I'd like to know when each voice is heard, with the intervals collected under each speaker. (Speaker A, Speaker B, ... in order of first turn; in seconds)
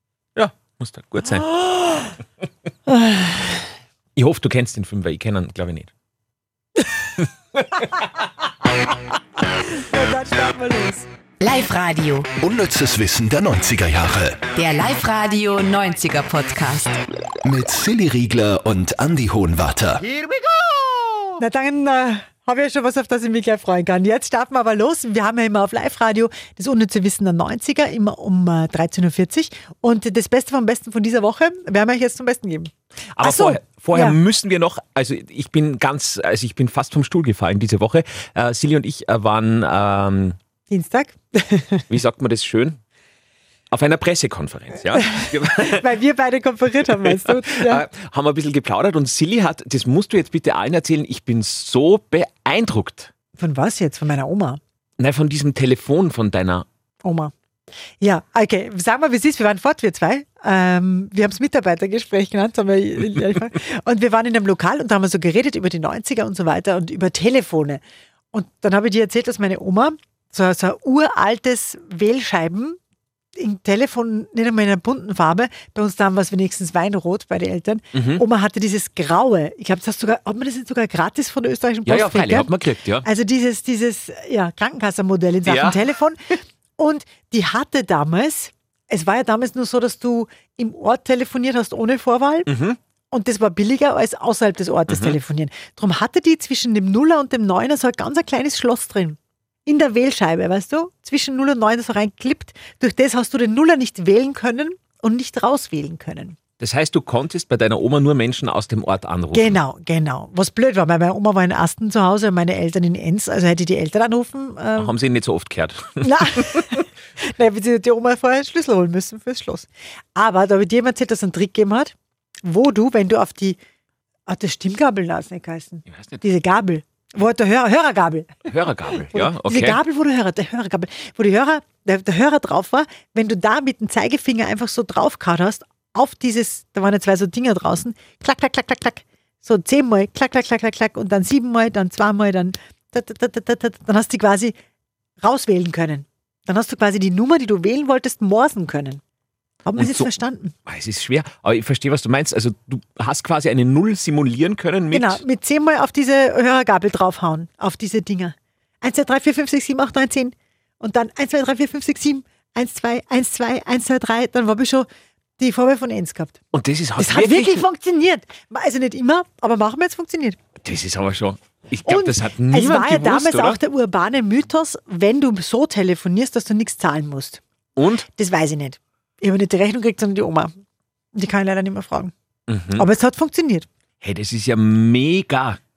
Speaker A: 0.4-1.6, 4.2-5.9, 7.2-8.1, 33.2-40.4, 41.9-42.8, 43.7-46.0, 46.9-53.1, 55.0-56.6, 77.9-78.2, 81.9-83.1, 85.5-85.8, 92.5-92.8, 94.9-95.2, 106.6-109.6, 114.8-116.8, 125.9-126.2, 128.5-129.8, 149.8-150.1, 150.7-155.2, 166.5-167.6, 170.6-173.6, 177.8-178.1, 182.5-182.9, 184.0-185.6
Speaker B: 2.9-3.6, 9.7-11.1, 21.4-34.2, 40.7-41.9, 45.0-47.8, 53.4-54.6, 57.0-57.3, 58.0-72.8, 73.4-82.5, 83.0-92.5, 93.1-106.4, 109.3-114.9, 116.0-123.6, 124.3-144.5, 145.2-149.0, 149.7-150.6, 154.9-164.9, 165.4-166.4, 167.0-170.4, 171.9-177.4, 178.1-180.6, 181.2-182.1, 182.8-183.7
Speaker C: 11.4-12.3, 14.5-17.0
Speaker D: 12.4-14.5, 17.4-20.1